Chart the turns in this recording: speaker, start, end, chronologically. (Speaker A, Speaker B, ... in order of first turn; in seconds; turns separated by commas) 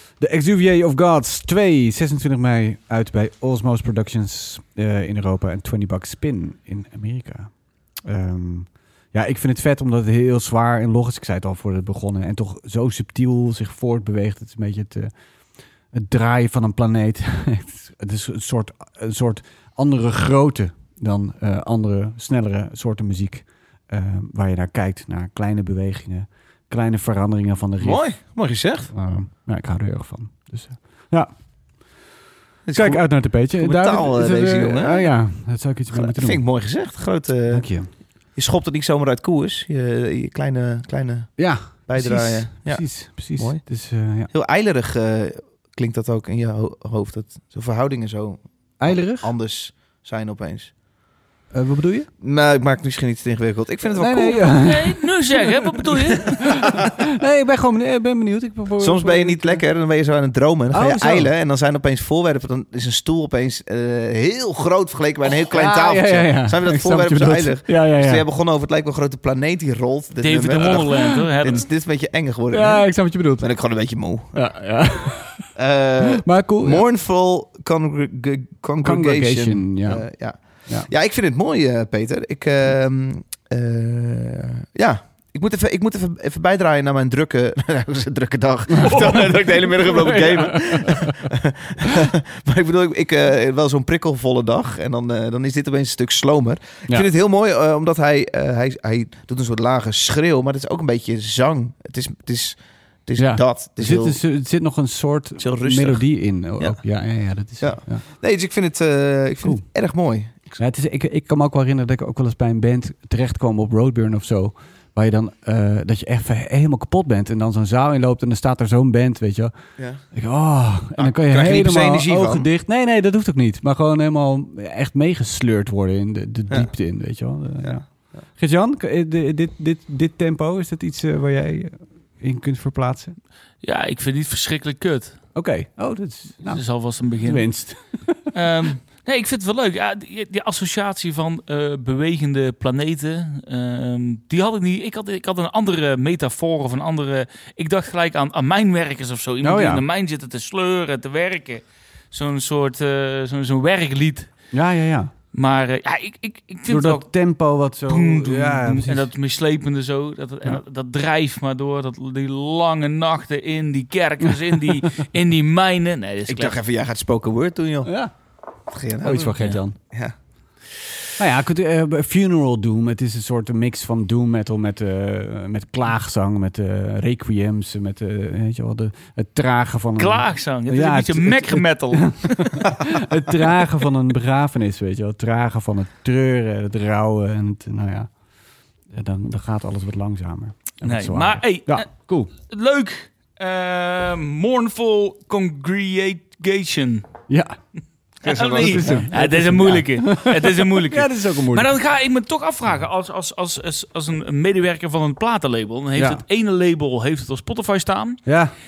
Speaker A: 0.2-15.1, Speaker A: 15.9-28.1, Speaker B: 27.8-28.9, Speaker A: 28.9-31.4, Speaker B: 32.7-35.1, Speaker A: 32.7-36.4, Speaker B: 35.9-37.7, Speaker A: 37.5-37.9, Speaker B: 38.3-43.6, Speaker A: 41.4-44.3, Speaker B: 44.3-50.7, Speaker A: 48.8-49.3, Speaker A: 51.5-52.1, Speaker B: 52.2-54.6, Speaker A: 54.0-59.6, Speaker C: 54.5-56.6, Speaker B: 58.8-74.4, Speaker A: 60.7-61.3, Speaker A: 65.4-68.2, Speaker C: 70.2-71.7, Speaker A: 70.8-71.2, Speaker A: 72.5-73.5, Speaker A: 74.3-75.5, Speaker B: 75.6-104.2, Speaker A: 76.1-76.9, Speaker A: 78.8-80.1, Speaker A: 88.7-91.2, Speaker A: 103.2-108.0, Speaker B: 105.4-106.0, Speaker B: 107.6-110.6, Speaker A: 110.6-119.5, Speaker A: 120.1-127.8, Speaker B: 121.0-122.5, Speaker A: 128.3-133.2, Speaker C: 133.6-135.2, Speaker A: 135.3-136.6, Speaker C: 136.5-137.5, Speaker A: 137.2-138.3, Speaker C: 138.3-154.3, Speaker A: 149.4-149.8, Speaker A: 154.5-155.1, Speaker C: 155.3-157.1, Speaker A: 156.7-159.1, Speaker C: 157.9-166.6, Speaker B: 166.3-167.9, Speaker A: 167.8-168.1, Speaker B: 168.7-170.1, Speaker A: 169.0-169.8, Speaker A: 171.2-188.1, Speaker C: 180.0-182.6, Speaker A: 188.9-192.3, Speaker C: 190.8-197.1, Speaker A: 197.3-197.6, Speaker B: 198.2-199.1, Speaker C: 198.2-208.2, Speaker A: 198.6-201.7, Speaker A: 206.0-206.2, Speaker A: 208.3-208.5